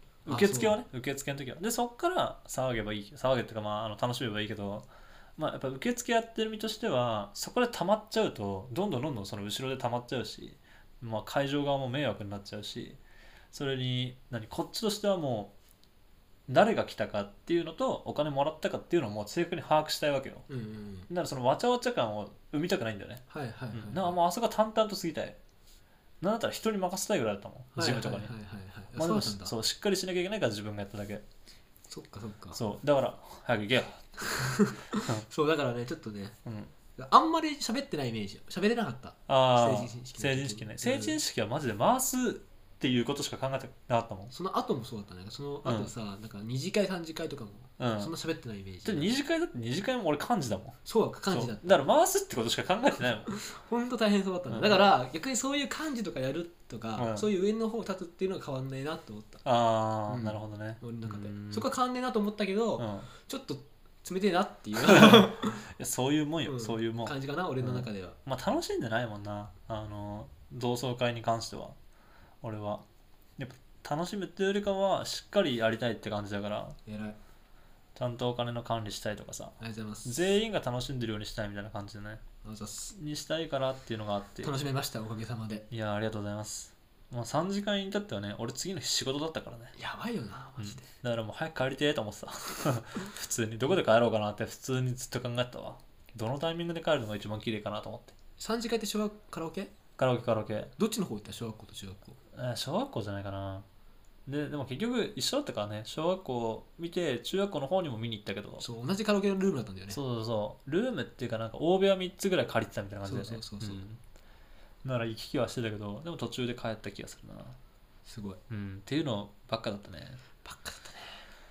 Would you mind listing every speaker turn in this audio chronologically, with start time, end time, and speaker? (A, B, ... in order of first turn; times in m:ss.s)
0:00.2-0:00.8 A
0:00.2-0:13.0 B
0:13.5-0:15.5 B
0:16.5-0:20.5 B
0:20.5-0:21.1 A
0:21.1-0:25.4 B
0:23.3-0:24.1 A
0:26.2-0:28.3 B
0:27.7-0:29.5 A
0:29.0-0:31.2 B
0:31.9-0:32.6 A
0:32.5-0:34.2 B
0:34.2-0:36.4 A
0:36.4-0:36.7 B
0:37.0-0:41.2 A
0:39.3-0:44.3 B
0:44.3-0:49.1 A
0:45.6-0:45.9 B
0:47.8-0:48.1 B
0:48.8-0:50.8 B
0:50.8-0:51.8 A
0:51.3-0:53.4 B
0:53.3-0:59.4 A
0:54.5-0:54.9 B
0:57.0-0:57.3 B
0:59.4-1:01.7 B
1:00.1-1:05.6 A
1:02.8-1:03.1 B
1:04.8-1:11.8 B
1:06.4-1:08.2 A
1:12.4-1:12.8 B
1:13.4-1:16.8 B
1:16.8-1:17.2 A
1:17.9-1:22.2 B
1:19.6-1:20.3 A
1:22.4-1:22.9 A
1:22.9-1:24.5 B
1:24.4-1:25.6 A
1:25.7-1:29.7 B
1:29.8-1:30.8 A
1:30.6-1:38.2 B
1:38.4-1:39.7 A
1:40.0-1:40.7 B
1:40.8-1:42.2 A
1:42.3-1:43.6 B
1:44.2-1:48.6 B
1:48.6-1:50.0 A
1:49.9-1:54.0 B
1:53.0-1:53.8 A
1:54.8-1:57.6 B
1:58.0-1:58.4 A
1:58.5-2:00.2 B
2:00.4-2:01.2 A